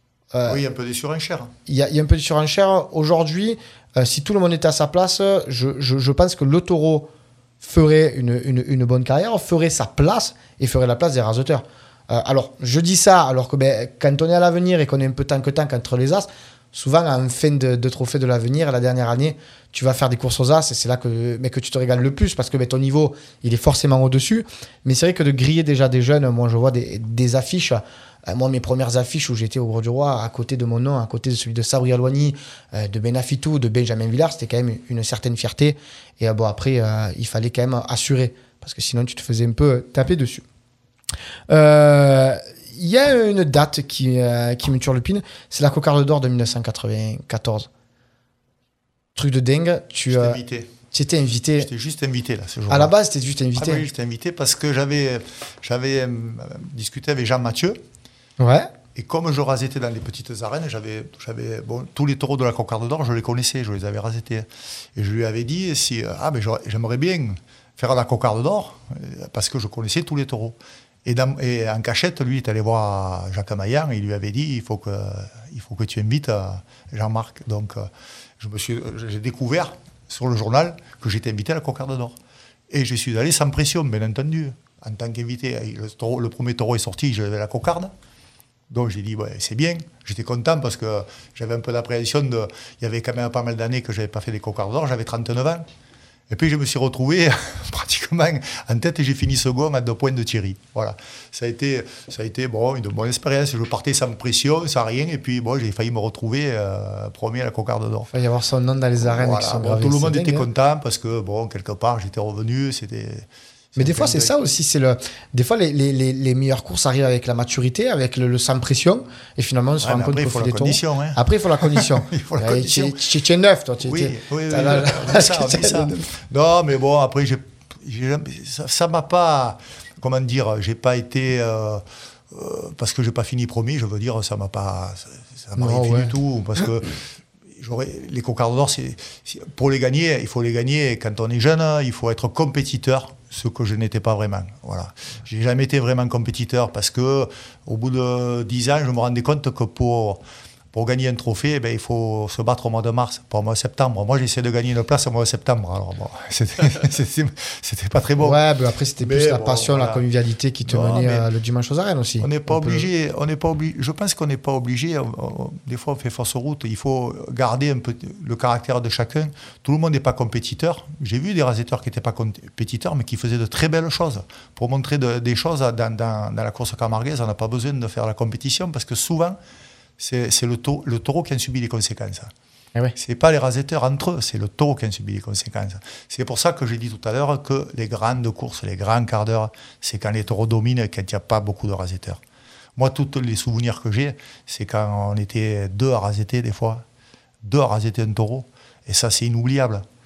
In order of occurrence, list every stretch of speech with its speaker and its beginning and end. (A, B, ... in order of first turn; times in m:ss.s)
0:00.3-0:00.6 A
0:00.4-0:01.5 B
0:01.7-0:07.1 A
0:07.6-0:40.4 A
0:41.5-0:47.7 A
0:49.2-0:50.4 A
0:50.1-0:50.7 B
0:50.9-0:51.7 A
0:51.6-0:52.9 B
0:52.7-0:53.8 A
0:53.6-0:57.8 B
0:58.4-0:58.7 A
0:58.9-1:22.2 B
1:22.7-1:27.9 B
1:28.7-1:35.7 B
1:36.3-1:48.1 B
1:48.1-1:50.5 A
1:49.0-1:54.3 B
1:53.8-2:06.1 A
1:59.8-2:03.0 B
2:03.8-2:30.2 B
2:15.6-2:16.1 A
2:30.7-2:38.4 B
2:38.2-2:42.9 A
2:39.0-2:40.0 B
2:40.6-2:41.3 B
2:42.2-2:59.4 B
3:00.0-3:02.3 B
3:03.0-3:12.2 B
3:12.8-3:16.8 B
3:17.4-3:19.8 B